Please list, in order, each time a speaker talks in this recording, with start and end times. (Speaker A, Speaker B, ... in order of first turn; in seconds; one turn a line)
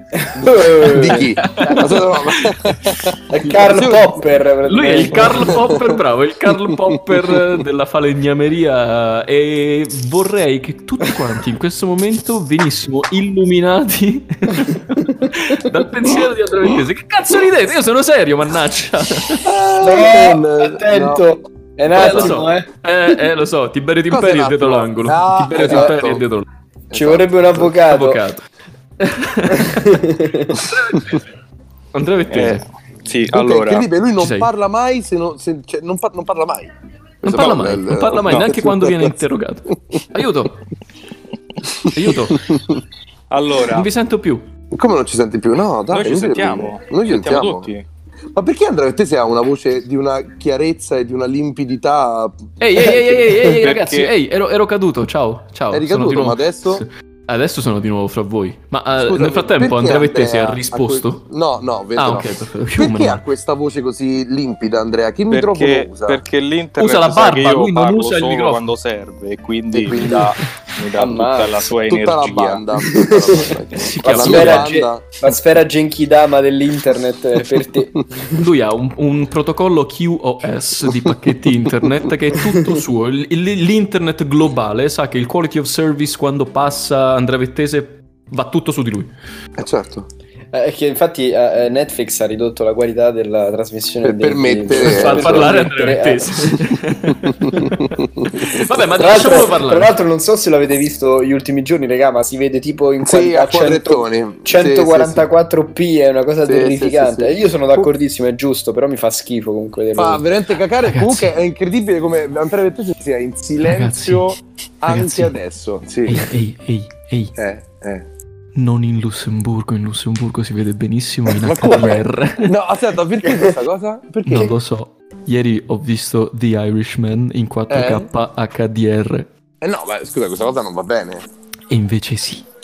Speaker A: 0.2-1.3
Speaker B: 0.3-4.2
Speaker C: 1.1-2.9
Speaker A: 3.3-5.9
Speaker C: 4.6-19.5
Speaker B: 5.2-6.0
Speaker B: 6.5-7.4
Speaker B: 19.4-21.2
Speaker A: 19.8-22.7
Speaker C: 21.9-26.4
Speaker B: 22.0-22.4
Speaker B: 24.1-26.2
Speaker A: 25.6-25.9
Speaker B: 26.9-27.7
Speaker A: 26.9-28.2
Speaker C: 27.6-28.4
Speaker C: 29.0-31.3
Speaker A: 29.6-30.6
Speaker C: 31.9-32.6
Speaker B: 32.3-32.6
Speaker D: 32.3-33.9
Speaker B: 33.3-39.2
Speaker C: 34.2-34.5
Speaker C: 37.2-40.6
Speaker B: 41.7-42.8
Speaker C: 41.9-42.5
Speaker D: 43.3-43.9
Speaker C: 43.7-44.5
Speaker B: 44.7-47.7
Speaker D: 45.9-47.8
Speaker B: 48.3-53.2
Speaker C: 52.6-61.2
Speaker D: 53.6-54.1
Speaker B: 55.7-56.8
Speaker B: 59.0-66.2
Speaker C: 62.0-63.2
Speaker D: 65.3-72.6
Speaker C: 66.8-68.6
Speaker B: 69.7-70.3
Speaker A: 71.0-71.6
Speaker B: 71.9-75.2
Speaker A: 72.9-78.3
Speaker C: 73.7-74.7
Speaker C: 78.3-89.1
Speaker B: 89.6-90.1
Speaker A: 90.5-96.7
Speaker B: 94.0-95.6
Speaker C: 94.8-97.7
Speaker B: 97.1-98.6
Speaker C: 98.3-99.9
Speaker A: 98.9-110.2
Speaker B: 103.0-105.3
Speaker B: 106.4-107.9
Speaker B: 110.0-116.3
Speaker C: 110.8-111.3
Speaker C: 113.6-114.3
Speaker C: 114.9-115.3
Speaker C: 116.1-117.3
Speaker B: 117.3-118.1
Speaker C: 118.5-122.5
Speaker B: 121.3-124.5
Speaker C: 124.3-129.3
Speaker B: 127.7-128.1
Speaker B: 129.6-131.3
Speaker C: 131.7-132.4